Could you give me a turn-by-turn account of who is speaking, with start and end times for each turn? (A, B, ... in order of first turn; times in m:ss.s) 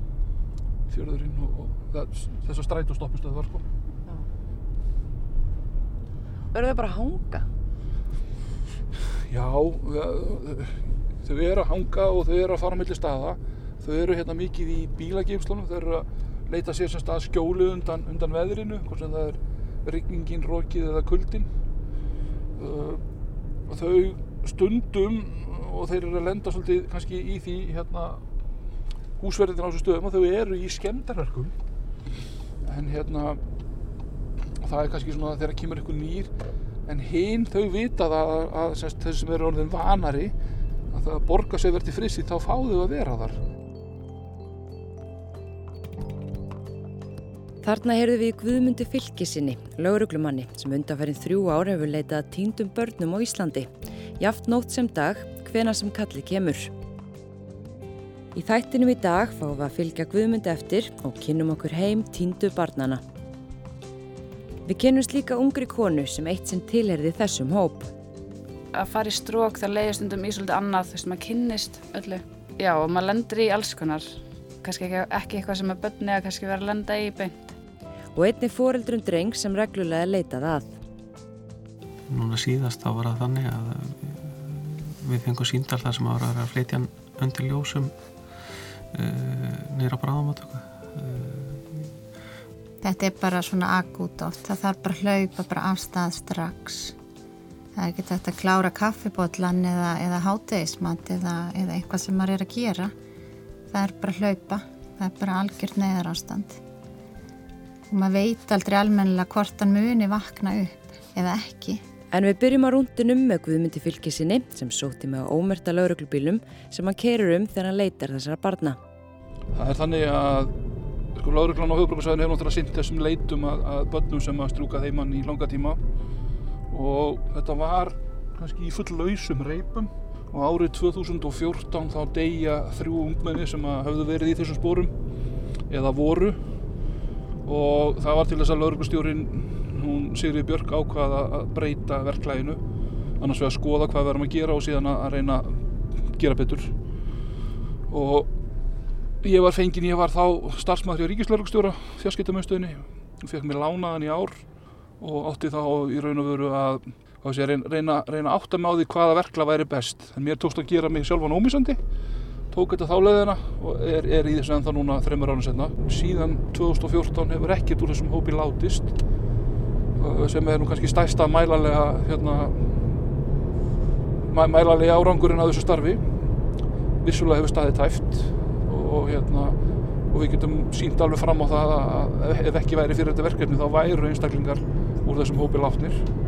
0:00.9-0:03.6 A
0:06.5-0:07.5 B
0:09.3-0:21.5 A
0:22.6-0:23.0 A
0:23.7-0:28.2 A
0:29.2-0:31.5 A
0:32.6-0:33.4 A
0:34.6-0:36.3 A
0:36.8-0:40.3 A
0:40.9-0:43.4 A
0:47.6-0:56.7 B
0:58.3-1:03.0 B
1:04.6-1:07.9 B
1:08.7-1:17.5 C
1:18.1-1:20.7 B
1:22.1-1:27.9 D
1:28.5-1:32.0 D
1:32.8-1:36.9 E
1:37.7-1:42.9 E
1:43.7-1:46.6 E
1:47.9-1:51.8 E
1:52.1-1:58.8 B
1:59.5-2:00.5 A
2:01.1-2:05.8 A
2:06.7-2:14.9 A
2:15.7-2:16.6 A
2:17.4-2:22.6 A
2:23.2-2:26.7 A
2:27.9-2:28.3 A
2:29.2-2:34.4 A
2:35.0-2:41.8 A
2:42.5-2:49.0 A
2:50.0-2:52.8 A
2:54.2-2:56.2 A
2:57.0-2:59.6 A
3:00.1-3:06.1 A